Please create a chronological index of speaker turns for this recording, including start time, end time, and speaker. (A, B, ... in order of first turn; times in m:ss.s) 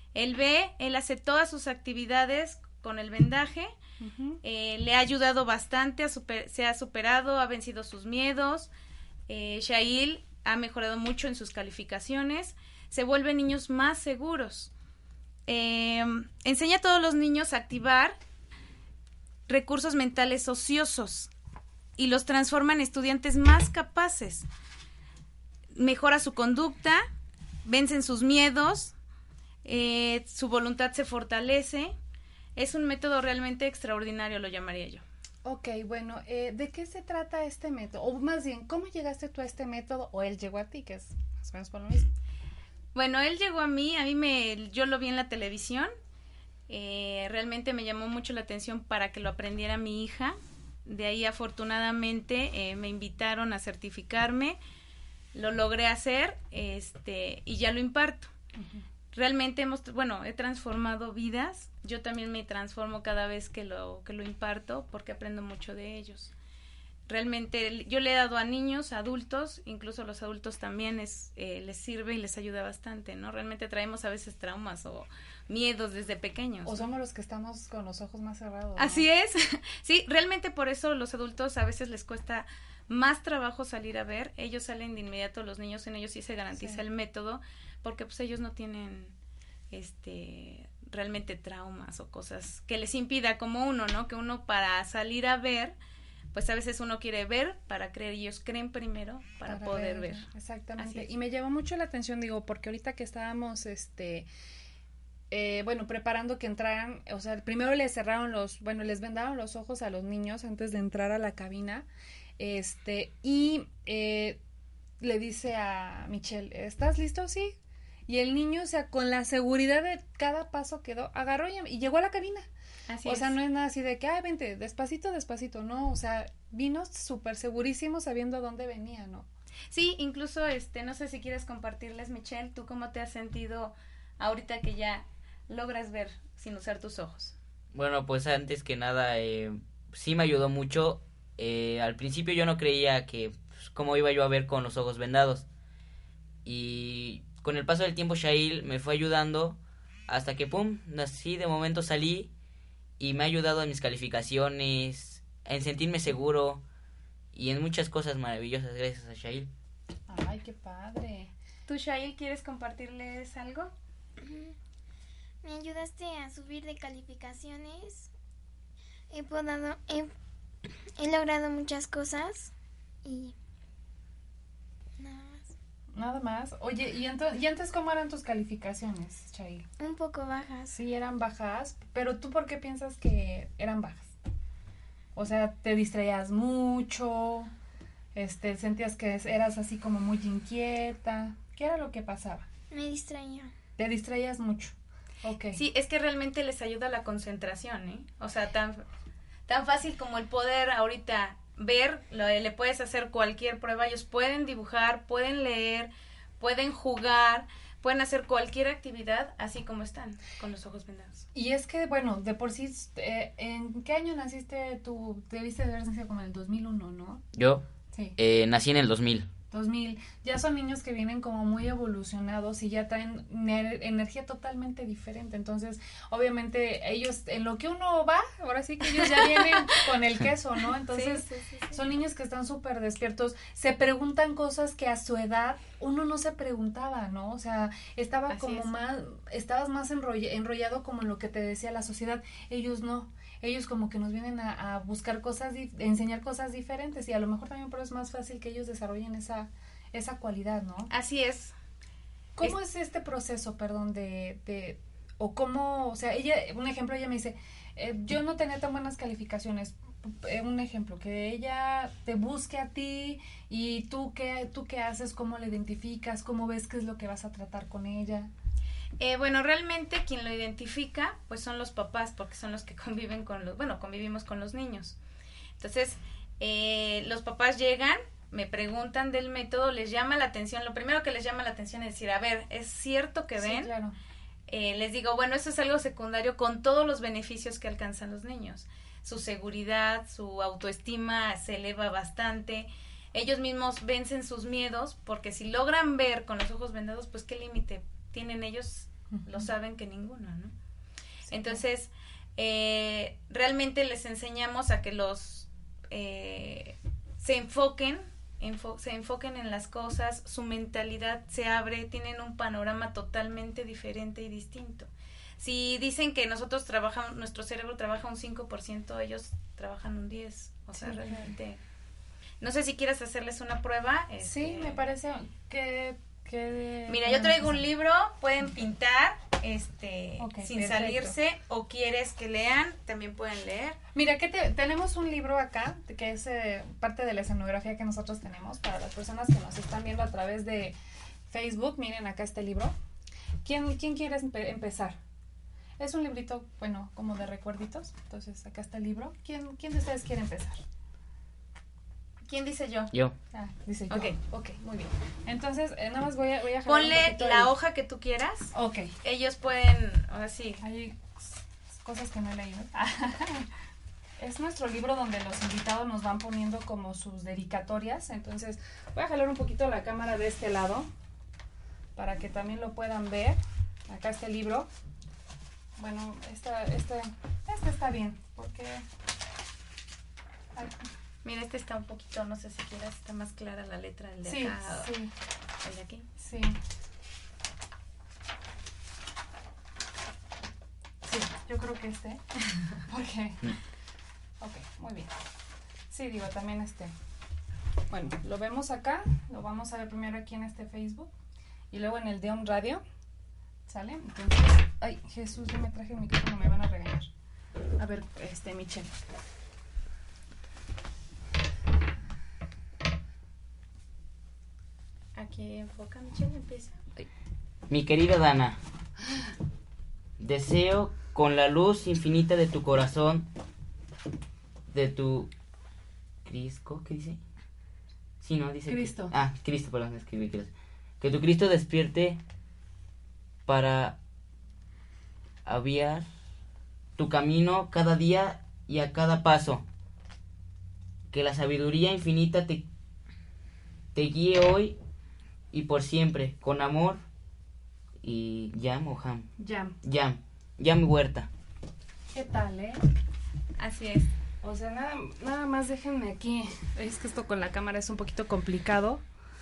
0:00.2-0:03.7 A
0:04.0-0:04.4 B
0:04.4-0:08.7 A
0:09.3-0:14.7 A
0:15.5-0:18.2 A
0:19.5-0:21.3 A
0:22.0-0:24.5 A
0:25.8-0:27.1 A
0:27.6-0:28.9 A
0:29.6-0:32.0 A
0:32.6-0:35.0 A
0:35.4-0:42.1 B
0:42.9-0:45.9 A
0:46.7-0:54.6 A
0:55.3-0:58.3 A
0:58.6-0:58.8 B
0:59.1-1:06.3 A
1:07.1-1:16.8 A
1:16.6-1:19.1 B
1:18.8-1:29.2 A
1:26.6-1:26.8 B
1:29.7-1:35.8 A
1:36.3-1:40.3 A
1:39.4-1:44.3 B
1:40.8-1:41.1 A
1:45.3-1:54.4 B
1:55.0-2:02.5 B
2:02.9-2:03.3 A
2:03.0-2:09.3 B
2:09.7-2:17.4 A
2:17.7-2:25.5 C
2:26.4-2:32.3 C
2:33.0-2:36.6 C
2:37.3-2:39.5 C
2:40.1-2:41.3 B
2:41.7-2:43.7 A
2:44.2-2:44.5 D
2:45.4-2:48.1 D
2:49.1-2:50.1 D
2:51.0-2:52.5 D
2:53.0-2:53.4 D
2:55.0-2:55.5 D
2:55.9-2:59.7 B
2:59.8-3:00.8 D
3:00.7-3:04.1 B
3:05.2-3:07.5 B
3:08.1-3:12.5 B
3:12.7-3:13.5 D
3:13.8-3:15.6 B
3:15.5-3:18.8 A
3:19.5-3:31.3 A
3:31.3-3:37.2 B
3:37.4-3:37.6 C
3:38.2-3:39.3 C
3:39.5-4:10.9 B
3:49.0-3:49.8 A
3:50.9-3:51.8 A
3:58.3-3:58.7 A
4:10.9-4:11.5 A
4:12.4-4:28.3 B
4:29.0-4:35.0 A
4:35.6-4:43.7 A
4:43.4-4:44.0 B
4:44.5-5:00.5 A
4:59.1-4:59.5 B
5:01.2-5:01.6 B
5:01.3-5:21.6 A
5:20.7-5:21.3 B
5:22.4-5:24.8 A
5:24.2-5:27.6 B
5:26.9-5:33.8 A
5:30.2-5:31.2 B
5:33.9-5:40.8 B
5:41.3-5:42.8 B
5:43.4-5:45.0 B
5:45.8-5:50.6 B
5:52.2-5:52.9 A
5:53.3-5:57.5 B
5:53.9-5:54.2 A
5:56.6-6:00.6 A
5:58.5-5:59.0 B
6:00.6-6:03.5 B
6:04.2-6:10.9 B
6:12.0-6:14.7 B
6:15.8-6:18.9 B
6:20.5-6:20.9 B
6:21.2-6:24.9 A
6:24.2-6:25.1 B
6:25.6-6:26.1 A
6:26.2-6:26.6 B
6:31.0-6:33.6 B
6:34.4-6:35.1 B
6:35.9-6:36.9 B
6:37.9-6:41.1 B
6:41.7-6:42.8 B
6:43.7-6:47.1 B
6:47.8-6:49.0 B
6:55.2-6:56.8 A
6:57.7-6:58.6 C
7:00.2-7:03.3 C
7:04.7-7:05.3 C
7:06.2-7:07.2 C
7:08.2-7:12.2 C
7:08.7-7:09.2 B
7:13.5-7:14.0 C
7:15.4-7:16.1 C
7:17.0-7:19.6 C
7:21.1-7:22.7 C
7:24.0-7:24.8 C
7:25.5-7:27.0 C
7:28.0-7:29.3 C
7:29.4-7:29.8 B
7:29.8-7:31.3 C
7:32.1-7:32.8 B
7:33.6-7:34.1 A
7:34.4-7:39.0 B